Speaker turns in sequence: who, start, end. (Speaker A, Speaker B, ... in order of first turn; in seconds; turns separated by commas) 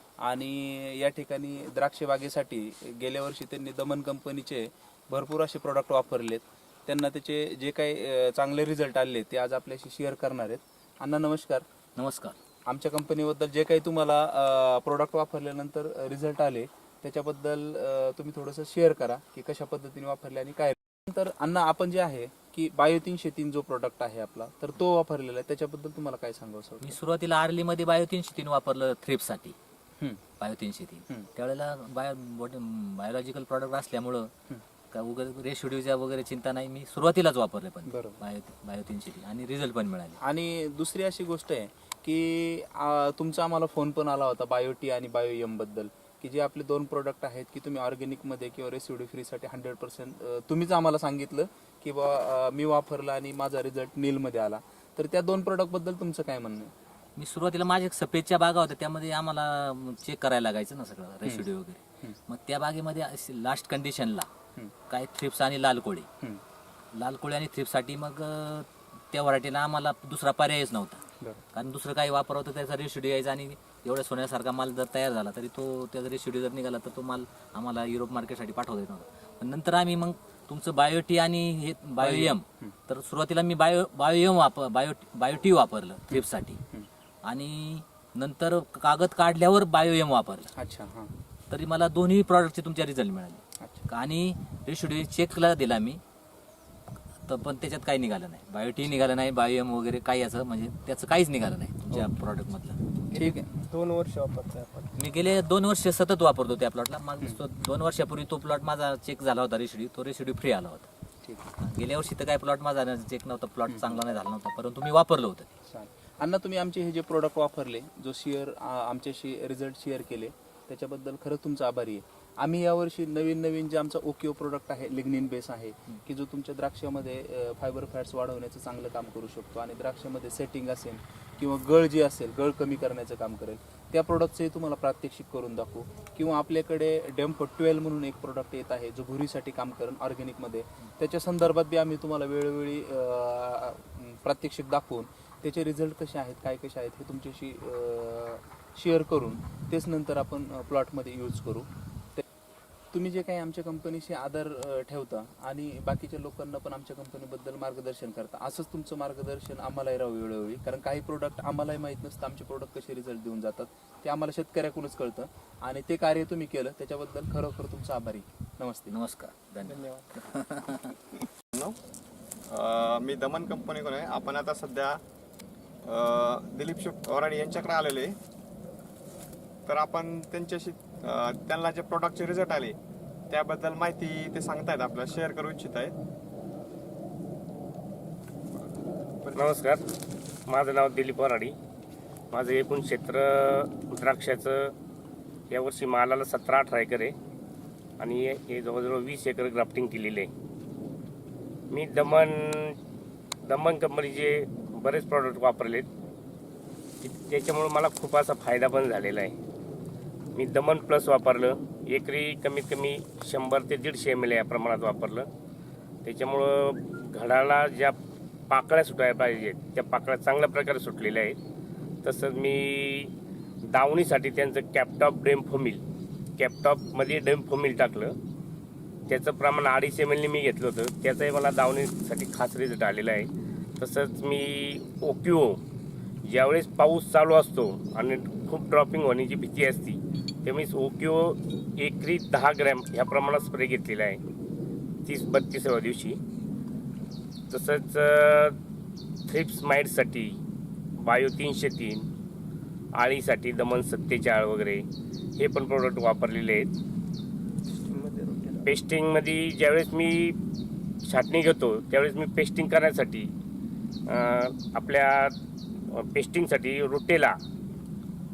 Speaker A: 0.2-11.7, Speaker B: 11.9-12.3, Speaker A: 12.7-27.0, Speaker B: 26.8-29.5, Speaker A: 30.0-30.2, Speaker B: 30.4-34.3, Speaker B: 34.9-40.2, Speaker A: 37.9-38.2, Speaker A: 40.2-56.7, Speaker B: 57.2-64.3, Speaker B: 64.9-66.1, Speaker B: 66.9-71.0, Speaker B: 71.5-86.6, Speaker A: 82.0-82.7, Speaker A: 86.1-86.9, Speaker B: 87.2-90.5, Speaker A: 90.5-91.1, Speaker B: 91.5-96.0, Speaker A: 93.6-93.8, Speaker B: 97.3-102.8, Speaker A: 103.1-103.5, Speaker C: 103.1-104.9, Speaker B: 105.0-110.9, Speaker A: 111.2-111.5, Speaker B: 111.6-115.5, Speaker A: 113.7-114.0, Speaker A: 115.7-152.2, Speaker A: 152.9-168.9, Speaker B: 168.9-170.9, Speaker C: 169.6-170.1, Speaker D: 172.5-175.0, Speaker D: 175.8-178.1, Speaker D: 179.7-182.8, Speaker D: 183.3-185.9, Speaker D: 188.5-189.7, Speaker E: 189.3-189.8, Speaker E: 190.5-191.5, Speaker E: 192.3-194.7, Speaker E: 195.5-197.1, Speaker E: 198.0-200.3, Speaker E: 201.7-202.8, Speaker E: 203.4-205.9, Speaker E: 207.0-209.3, Speaker E: 210.3-215.3, Speaker E: 216.0-217.9, Speaker E: 218.5-221.4, Speaker E: 222.0-223.1, Speaker E: 223.7-225.8, Speaker E: 226.4-228.1, Speaker E: 229.1-235.6, Speaker E: 236.3-244.2, Speaker E: 245.1-246.2, Speaker E: 247.5-248.6, Speaker E: 249.3-250.3, Speaker E: 251.0-252.1, Speaker E: 253.0-254.8, Speaker E: 255.4-256.7, Speaker C: 257.6-258.7, Speaker E: 258.6-260.4, Speaker E: 261.1-263.3, Speaker E: 264.1-265.3, Speaker E: 265.9-267.4